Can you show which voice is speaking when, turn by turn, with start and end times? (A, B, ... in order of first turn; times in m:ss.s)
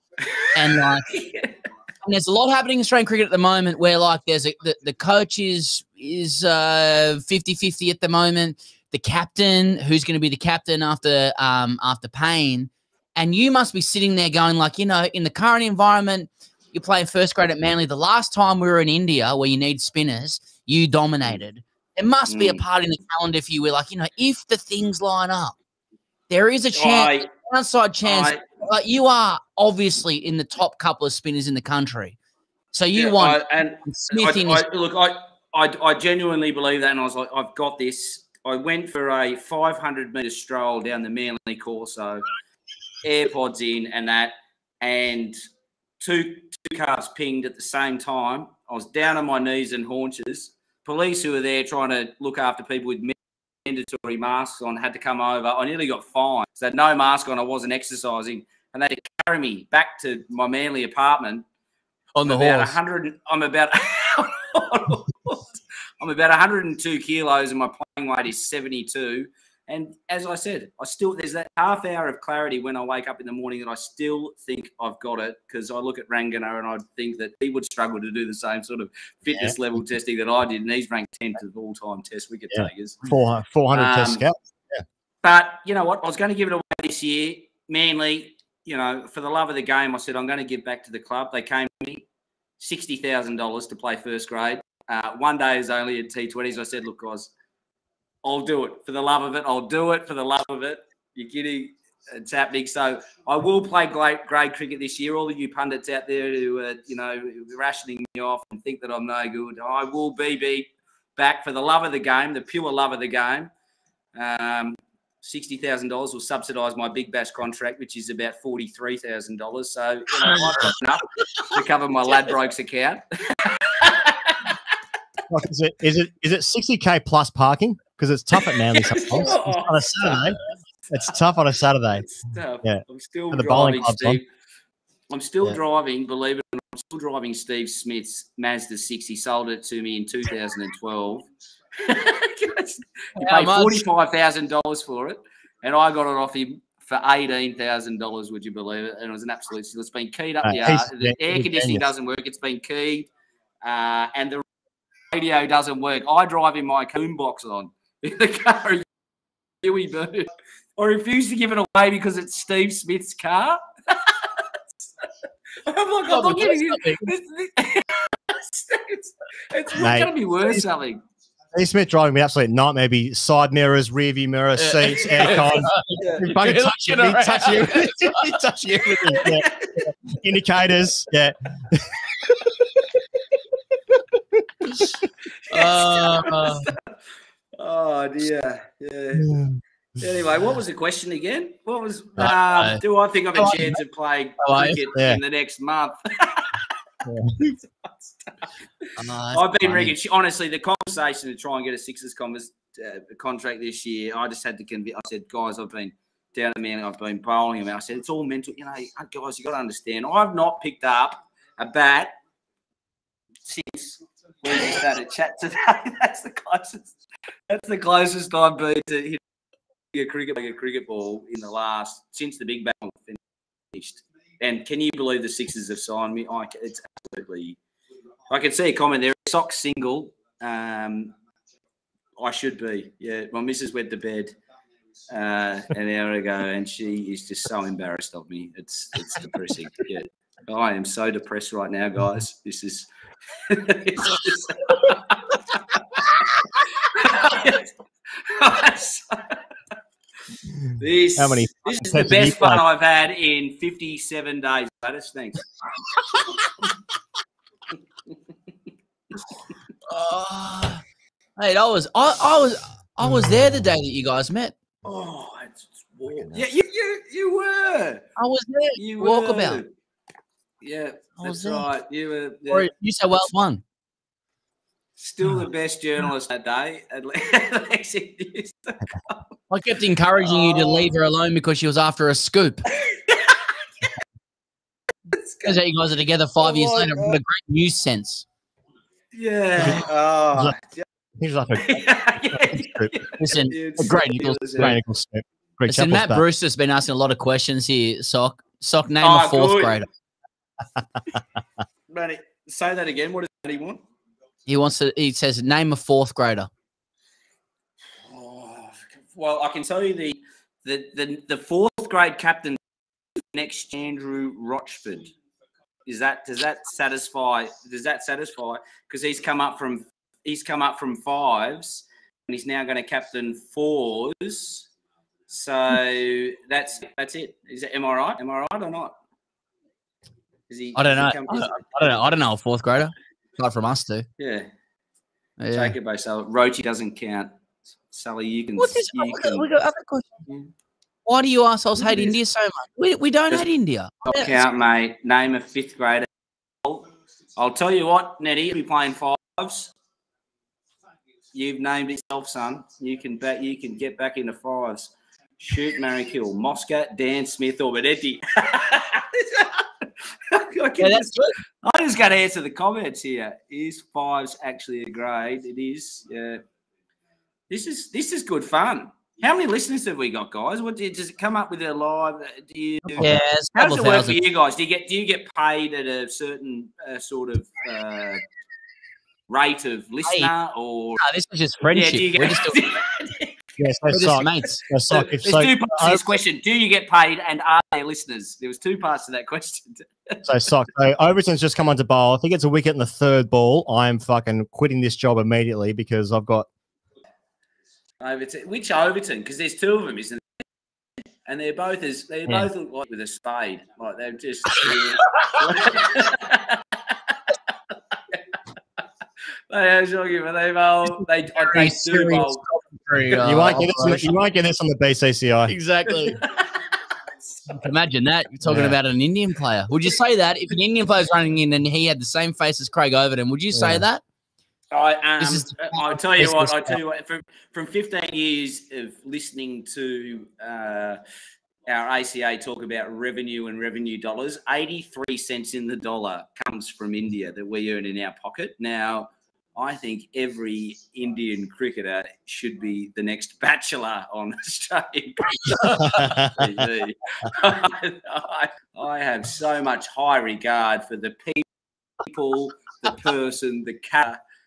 0:00.2-0:01.5 A
0:00.5-0:01.1 B
0:02.0-0:25.6 B
0:22.3-0:22.6 A
0:26.3-0:32.2 B
0:26.7-0:27.3 A
0:28.0-0:28.4 A
0:32.7-0:34.6 B
0:32.9-0:42.3 A
0:43.0-0:45.4 A
0:46.0-1:01.4 A
1:02.1-1:02.8 B
1:02.2-1:23.1 A
1:22.5-1:24.8 C
1:23.7-1:24.2 A
1:25.2-1:32.0 A
1:32.6-1:37.3 A
1:38.2-1:53.5 A
1:54.1-2:04.6 A
2:05.3-2:10.4 C
2:08.5-2:10.4 A
2:10.9-2:12.0 C
2:12.0-2:14.2 A
2:12.6-2:14.2 C
2:15.1-2:21.3 A
2:21.8-2:33.1 A
2:23.2-2:23.8 B
2:30.4-2:31.8 C
2:33.6-2:34.4 A
2:35.1-2:38.8 A
2:39.6-2:44.4 A
2:45.6-2:51.0 A
2:46.0-2:47.1 B
2:49.7-2:50.6 C
2:51.5-3:02.0 C
2:54.6-2:58.3 B
2:56.0-2:56.3 A
2:59.1-2:59.8 A
3:05.5-3:06.7 B
3:05.5-3:06.8 A
3:07.6-3:09.3 A
3:09.1-3:09.6 C
3:10.0-3:16.7 A
3:12.2-3:12.8 B
3:13.3-3:13.8 B
3:14.4-3:14.8 B
3:14.9-3:15.2 C
3:17.0-3:17.4 C
3:17.8-3:32.1 A
3:19.0-3:19.9 B
3:33.4-3:37.0 A
3:37.5-3:39.2 A
3:39.9-3:43.2 A
3:43.7-3:47.6 A
3:48.3-3:51.1 A
3:52.2-3:54.4 A
3:55.1-4:02.9 A
4:03.4-4:09.4 A
4:10.7-4:12.6 C
4:10.8-4:15.4 A
4:19.9-4:20.8 B
4:21.4-4:24.6 B
4:24.8-4:28.0 A
4:28.2-4:29.6 B
4:28.8-4:29.7 A
4:30.6-4:32.7 A
4:31.2-4:31.7 B
4:32.5-4:33.6 B
4:35.0-4:39.2 A
4:39.5-4:42.7 B
4:40.2-4:40.9 A
4:42.8-4:43.4 A
4:45.1-4:45.6 A
4:45.4-4:48.2 B
4:46.4-4:47.2 A
4:49.1-4:50.8 A
4:49.6-4:50.6 C
4:51.2-4:53.0 C
4:51.6-4:54.8 A
4:53.2-4:54.8 B
4:54.5-4:56.2 C
4:55.6-4:59.9 B
4:59.0-4:59.8 A
5:01.9-5:03.8 A
5:04.4-5:06.5 B
5:08.1-5:12.6 A
5:13.3-5:15.1 A
5:15.8-5:24.7 A
5:25.3-5:29.0 A
5:30.5-5:31.6 A
5:30.7-5:34.0 B
5:34.2-5:34.5 A
5:35.4-5:35.8 B
5:35.5-5:37.3 A
5:37.9-5:39.5 A
5:38.6-5:40.2 B
5:41.0-5:44.4 B
5:41.8-5:42.1 A
5:44.0-5:46.1 A
5:46.6-5:49.7 A
5:51.3-6:06.4 A
6:00.8-6:01.3 B
6:07.5-6:18.2 A
6:13.0-6:14.2 B
6:19.3-6:21.0 A
6:20.0-6:20.3 B
6:21.0-6:22.7 B
6:21.6-6:23.3 A
6:23.6-6:26.0 C
6:23.9-6:24.6 B
6:24.9-6:30.2 A
6:30.2-6:36.5 C
6:38.0-6:40.3 A
6:41.2-6:46.9 A
6:49.5-6:52.4 A
6:51.4-6:54.1 B
6:53.2-6:55.5 C
6:55.5-6:56.2 B
6:56.0-6:56.8 A
6:57.5-7:04.0 B
6:58.4-6:58.8 C
7:03.5-7:03.8 C
7:04.7-7:11.0 A
7:05.2-7:06.8 B
7:11.6-7:31.4 A
7:25.9-7:26.5 C
7:32.0-7:34.2 A